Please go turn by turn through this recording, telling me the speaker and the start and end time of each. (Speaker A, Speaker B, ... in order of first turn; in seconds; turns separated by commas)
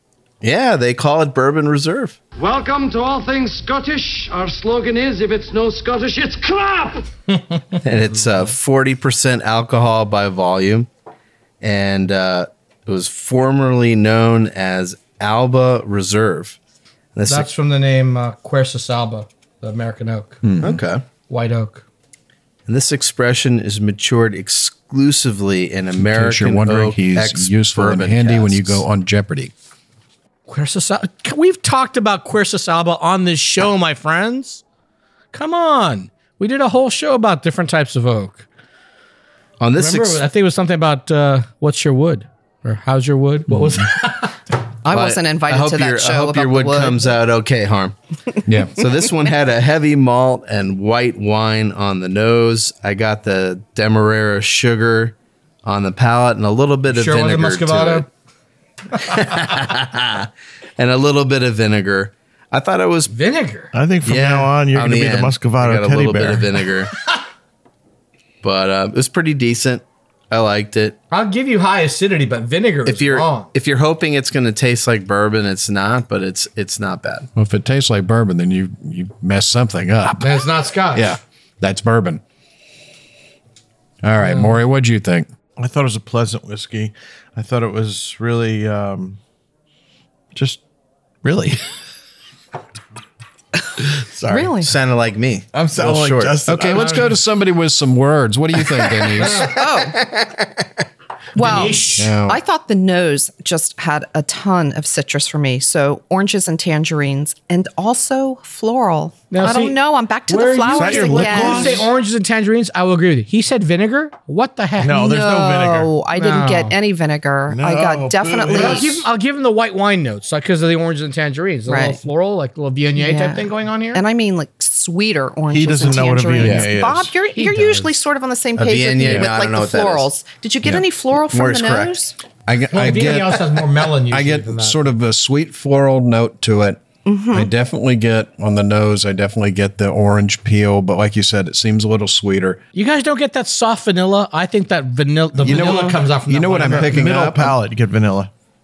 Speaker A: 0.4-2.2, Speaker B: 2.4-7.1, Speaker A: 7.8-10.9, Speaker A: 11.6-16.6, Speaker A: 17.1-17.5, Speaker C: 17.2-20.4, Speaker D: 20.4-20.8, Speaker A: 20.6-21.0, Speaker C: 21.3-21.8, Speaker A: 22.7-28.8, Speaker D: 26.0-29.5, Speaker C: 30.5-34.6, Speaker C: 35.3-38.5, Speaker A: 39.6-40.2, Speaker C: 39.8-44.4, Speaker D: 43.5-43.8, Speaker E: 44.8-47.1, Speaker A: 44.9-47.9, Speaker D: 48.5-48.7, Speaker A: 48.7-58.1, Speaker C: 56.9-58.0, Speaker A: 58.9-63.1, Speaker C: 63.1-63.7, Speaker F: 63.7-66.6, Speaker A: 64.0-66.9, Speaker A: 68.4-71.0, Speaker C: 71.1-73.5, Speaker A: 72.8-77.3, Speaker D: 77.3-82.2, Speaker C: 80.2-81.1, Speaker D: 84.0-85.3, Speaker C: 84.2-84.5, Speaker F: 85.6-89.2, Speaker F: 90.3-90.6, Speaker F: 91.2-91.6, Speaker F: 93.9-94.5, Speaker E: 94.3-94.7, Speaker A: 94.6-96.4, Speaker F: 95.5-97.2, Speaker D: 96.5-99.5, Speaker C: 96.8-97.0, Speaker C: 99.2-99.6, Speaker E: 99.3-100.3, Speaker C: 101.3-102.1, Speaker E: 101.3-111.8, Speaker D: 101.9-102.4, Speaker C: 109.3-115.0, Speaker F: 110.7-111.9, Speaker F: 114.8-115.9, Speaker E: 114.9-118.9, Speaker C: 116.1-116.8, Speaker F: 117.5-119.1, Speaker C: 118.5-124.0, Speaker E: 121.7-122.0, Speaker E: 123.0-132.2, Speaker F: 125.5-127.2, Speaker D: 126.4-126.7, Speaker C: 127.4-127.8, Speaker A: 128.6-130.1, Speaker A: 131.2-132.0, Speaker D: 132.4-136.8, Speaker C: 132.7-134.8, Speaker E: 137.1-137.5, Speaker D: 137.3-142.6, Speaker C: 142.7-147.2, Speaker D: 145.4-147.6, Speaker F: 145.5-145.9, Speaker F: 146.6-148.3